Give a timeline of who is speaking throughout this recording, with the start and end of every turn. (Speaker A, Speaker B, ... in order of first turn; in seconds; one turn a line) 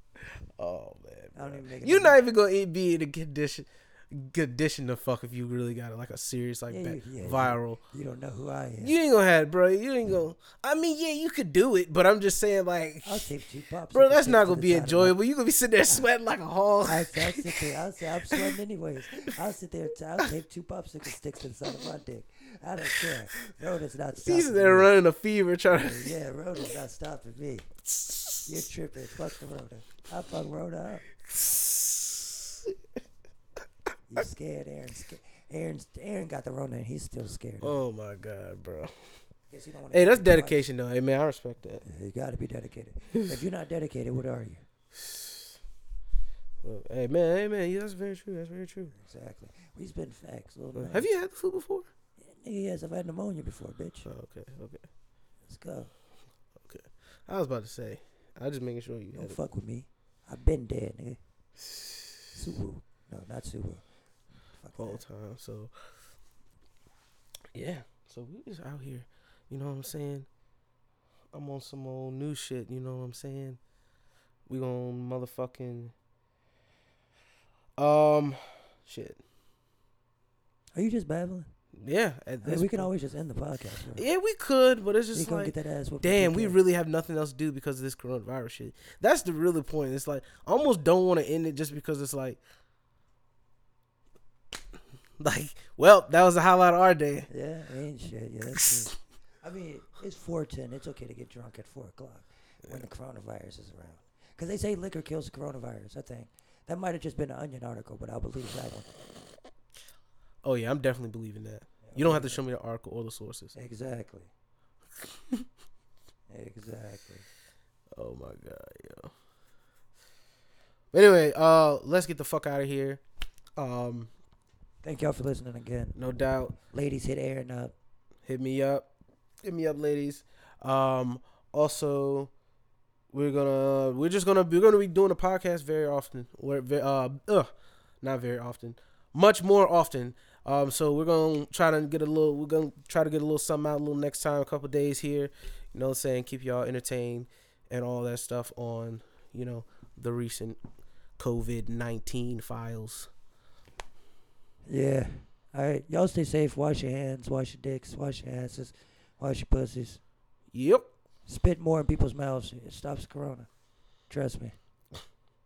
Speaker A: 0.6-7.8
Speaker B: 1.4-2.2
Speaker B: 6.7-8.9
Speaker A: 8.8-13.3
Speaker B: 13.0-15.2
Speaker A: 13.9-17.6
Speaker B: 16.9-24.9
Speaker A: 24.2-26.1
Speaker B: 25.7-27.7
Speaker B: 28.5-31.1
Speaker A: 31.3-32.7
Speaker B: 34.1-37.8
Speaker A: 37.6-39.2
Speaker B: 39.5-40.7
Speaker A: 39.9-41.9
Speaker B: 41.8-44.6
Speaker A: 45.0-45.5
Speaker A: 46.6-48.9
Speaker B: 48.9-51.1
Speaker A: 50.8-51.9
Speaker B: 52.2-54.1
Speaker A: 54.0-54.9
Speaker B: 55.4-55.9
Speaker A: 56.6-59.4
Speaker B: 59.1-61.2
Speaker B: 62.3-63.9
Speaker B: 64.5-65.0
Speaker A: 64.8-66.0
Speaker A: 67.5-70.3
Speaker A: 71.3-73.6
Speaker A: 74.5-75.9
Speaker A: 77.8-79.2
Speaker B: 80.7-81.5
Speaker A: 81.8-82.9
Speaker B: 82.4-84.1
Speaker A: 84.0-92.4
Speaker B: 85.1-86.6
Speaker A: 95.2-97.3
Speaker B: 97.3-108.9
Speaker A: 110.4-113.5
Speaker B: 111.8-112.4
Speaker B: 113.5-114.3
Speaker B: 116.3-117.2
Speaker A: 117.9-119.1
Speaker A: 120.9-123.0
Speaker A: 123.6-124.1
Speaker B: 124.8-126.0
Speaker A: 126.0-126.6
Speaker B: 126.6-127.7
Speaker A: 128.2-128.9
Speaker A: 129.4-132.3
Speaker A: 133.1-150.6
Speaker A: 151.2-153.1
Speaker B: 154.7-160.0
Speaker A: 160.5-160.9
Speaker B: 161.3-163.5
Speaker B: 164.1-164.6